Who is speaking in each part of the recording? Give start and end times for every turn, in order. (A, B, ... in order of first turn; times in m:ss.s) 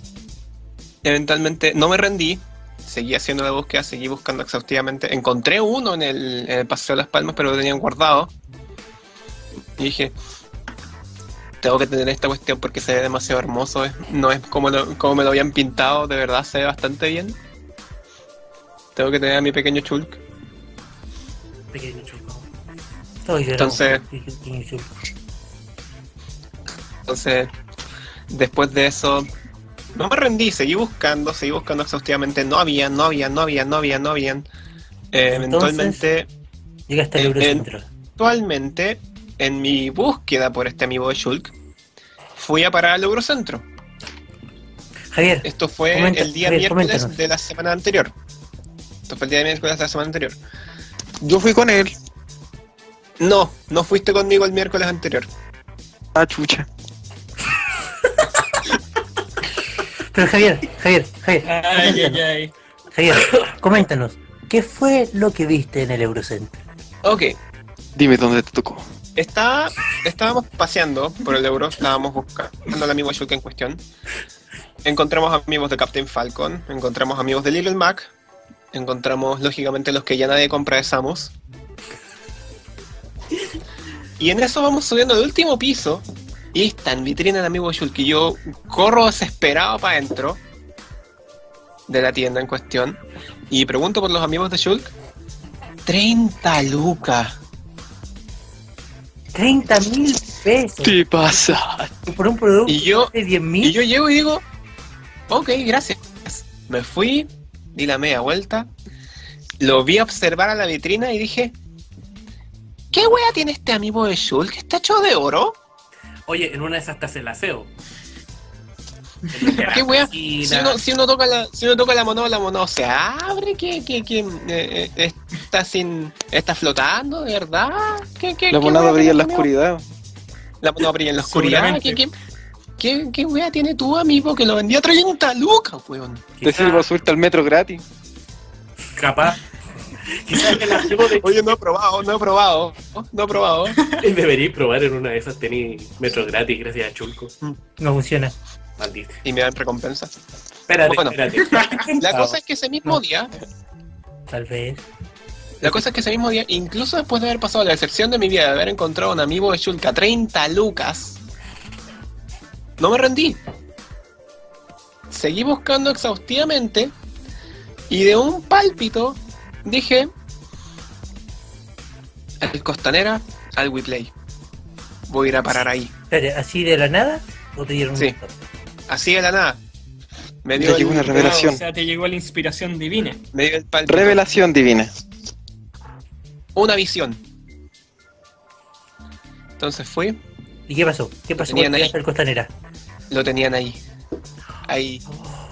0:01.0-0:08.3 A
0:09.8-0:10.1 A
0:11.6-0:17.4 A
0:19.0-0:20.2 A
0:21.7-0:22.5 B
0:23.2-0:24.9 C
0:23.5-0:24.0 A
0:27.1-0:27.5 A
0:28.3-0:29.3 A
0:29.9-0:34.5 A
0:35.1-0:36.3 A
0:35.3-0:36.0 C
0:36.9-0:37.8 C
0:37.2-0:37.6 A
0:38.2-0:41.5 A
0:42.4-0:43.6 A
0:45.1-0:47.2 C
0:45.4-0:48.1 A
0:49.1-0:50.4 A
0:51.2-0:51.9 D
0:53.2-0:55.3 A
0:56.1-0:56.7 D
1:00.1-1:02.2 C
1:01.4-1:02.5 E
1:02.9-1:06.6 C
1:03.1-1:03.5 B
1:07.0-1:07.4 A
1:08.0-1:08.8 D
1:09.2-1:13.8 A
1:14.8-1:18.1 A
1:18.7-1:21.3 A
1:24.2-1:30.4 A
1:31.9-1:34.9 A
1:35.8-1:37.4 A
1:39.3-1:41.0 C
1:40.8-1:41.9 D
1:42.1-1:43.8 C
1:42.6-1:43.1 A
1:43.6-1:44.4 A
1:45.3-1:48.7 A
1:49.6-1:51.5 A
1:52.9-1:55.6 A
1:56.3-1:57.7 B
1:59.3-2:00.8 B
1:59.7-2:09.5 A
2:08.5-2:09.8 D
2:10.6-2:12.1 A
2:11.2-2:12.0 E
2:12.8-2:16.2 A
2:16.4-2:16.9 B
2:16.4-2:17.8 D
2:18.9-2:19.4 B
2:20.2-2:21.6 B
2:21.1-2:23.8 A
2:24.0-2:27.3 B
2:27.8-2:28.3 C
2:28.8-2:29.2 B
2:29.2-2:30.1 A
2:30.7-2:32.4 B
2:30.8-2:31.2 A
2:32.0-2:33.3 A
2:34.3-2:34.8 C
2:35.6-2:41.2 A
2:42.8-2:43.4 A
2:45.1-2:46.9 A
2:47.9-2:50.1 A
2:52.4-2:54.1 A
2:55.1-2:55.9 A
2:56.1-2:58.3 C
2:58.9-2:59.6 A
3:00.4-3:01.4 A
3:00.6-3:01.6 D
3:01.0-3:03.2 E
3:03.3-3:04.2 A
3:03.8-3:04.9 D
3:06.5-3:07.2 A
3:09.6-3:10.2 A
3:10.7-3:12.5 C
3:11.4-3:11.9 A
3:13.1-3:13.8 A
3:14.6-3:15.0 A
3:15.1-3:15.4 B